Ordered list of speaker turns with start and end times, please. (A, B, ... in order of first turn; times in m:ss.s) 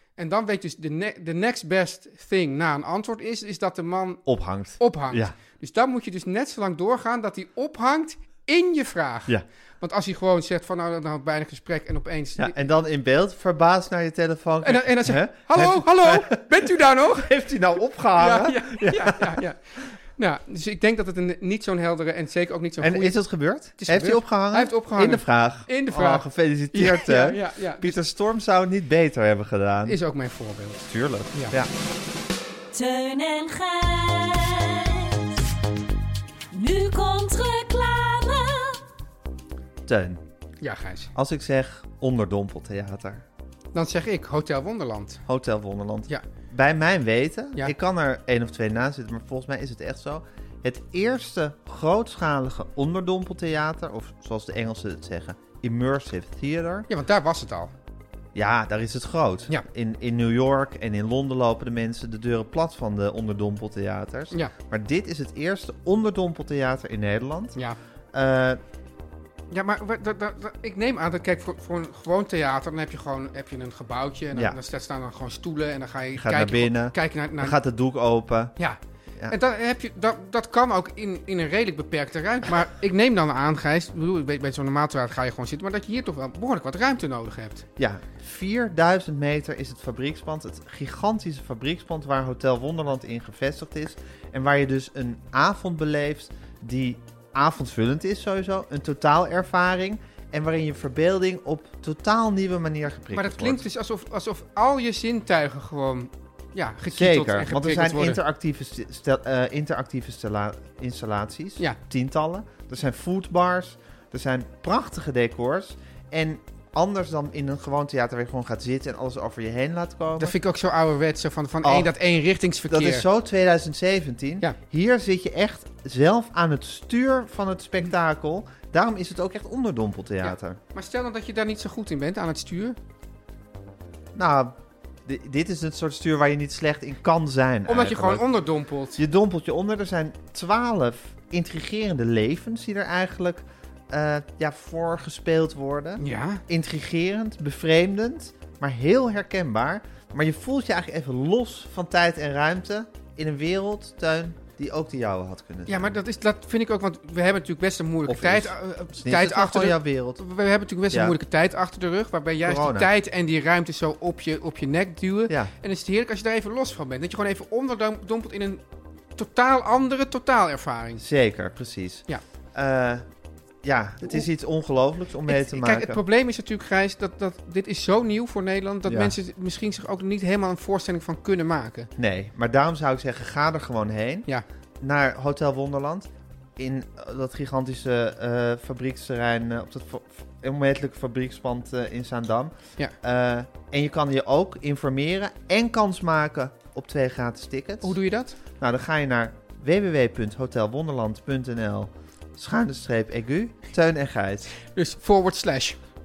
0:00.2-0:04.2 A
0:04.2-0:05.4 B
0:04.8-0:12.6 A
0:12.4-0:19.4 B
0:14.6-0:17.4 A
0:18.2-0:23.2 A
0:22.8-0:30.0 B
0:23.8-0:28.0 A
0:29.9-0:31.6 A
0:30.9-0:31.7 B
0:32.7-0:35.5 C
0:36.5-0:38.8 C
0:39.9-0:40.2 B
0:40.6-0:41.1 A
0:41.1-0:43.2 B
0:43.7-0:45.2 A
0:45.3-0:56.9 B
0:56.9-0:57.7 A
0:58.4-1:07.6 B
1:08.1-1:08.6 B
1:09.5-1:17.6 A
1:14.3-1:14.6 B
1:16.2-1:18.6 B
1:18.6-1:27.6 A
1:27.8-1:43.6 B
1:43.1-1:48.2 A
1:46.9-2:00.4 B
2:00.2-2:03.1 A
2:01.6-2:01.9 B
2:02.7-2:10.6 B
2:10.2-2:12.8 A
2:14.2-2:18.2 B
2:17.7-2:19.0 A
2:19.0-2:36.0 B
2:26.0-2:26.4 A
2:35.7-2:48.6 A
2:38.1-2:40.2 B
2:40.9-2:41.2 B
2:42.4-2:42.9 B
2:49.2-2:51.0 A
2:51.0-2:53.0 B
2:53.6-2:56.0 B
2:55.3-3:01.9 A
2:58.9-2:59.2 B
3:02.0-3:04.3 B
3:04.8-3:18.0 B
3:17.8-3:18.4 A
3:18.6-3:24.5 B
3:24.7-3:25.8 A